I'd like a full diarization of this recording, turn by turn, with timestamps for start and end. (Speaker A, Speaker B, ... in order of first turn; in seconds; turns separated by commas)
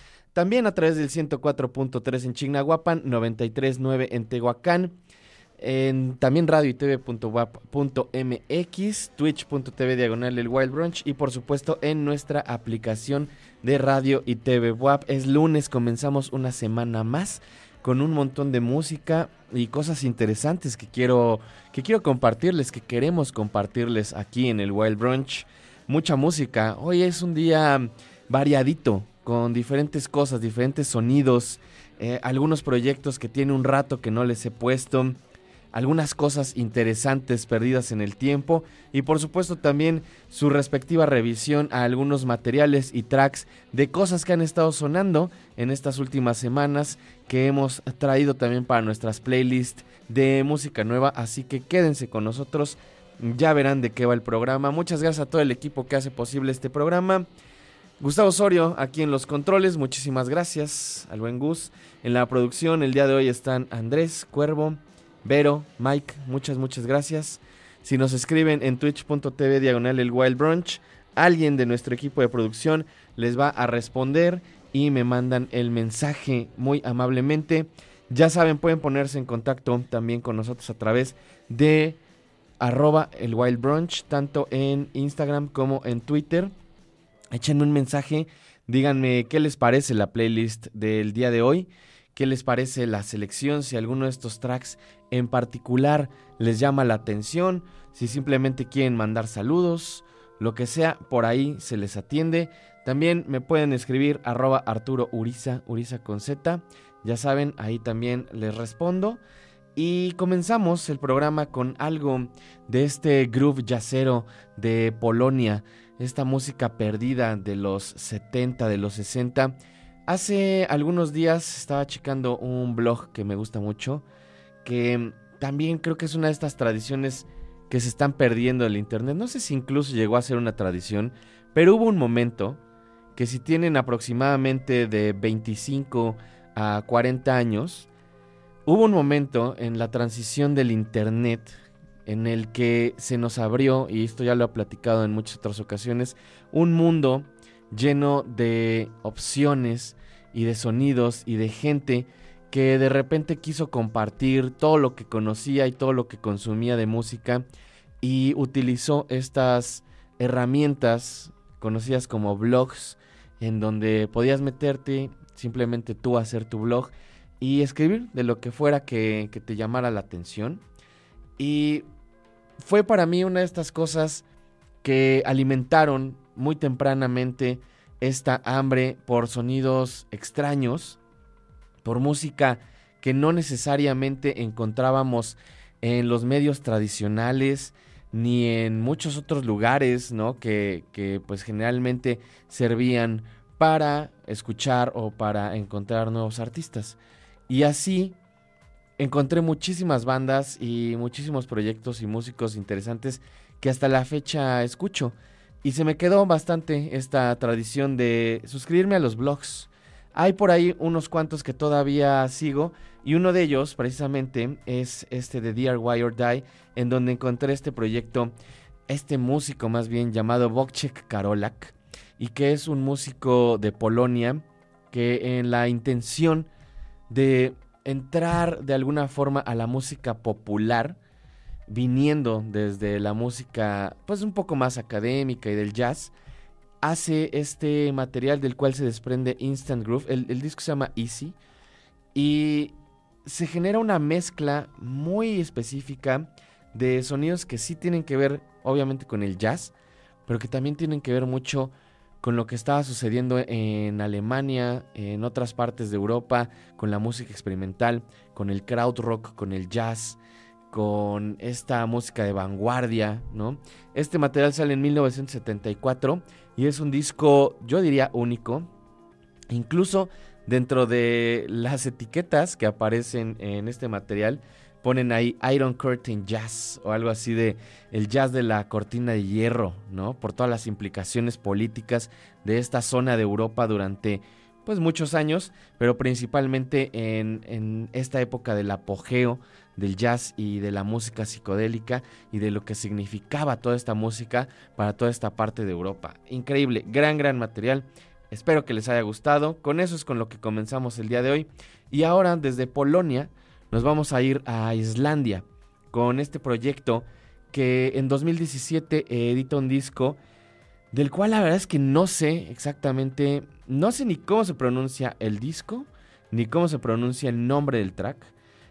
Speaker A: 0.3-5.0, Speaker A: 5.6-35.2, Speaker A: 35.7-57.3, Speaker A: 58.0-82.0, Speaker A: 82.6-86.5, Speaker A: 87.3-109.2, Speaker A: 109.8-119.5, Speaker A: 120.1-124.0, Speaker A: 124.6-132.6, Speaker A: 133.2-137.9, Speaker A: 138.7-141.5, Speaker A: 142.1-157.4, Speaker A: 158.0-170.6, Speaker A: 171.4-171.8, Speaker A: 172.6-174.2, Speaker A: 174.8-181.0, Speaker A: 181.8-197.0, Speaker A: 197.5-198.2, Speaker A: 199.0-218.3, Speaker A: 218.9-226.5, Speaker A: 227.1-231.0, Speaker A: 231.7-236.1, Speaker A: 236.8-241.3, Speaker A: 242.1-249.7, Speaker A: 250.3-260.2, Speaker A: 260.7-268.7, Speaker A: 269.5-310.2, Speaker A: 310.9-318.3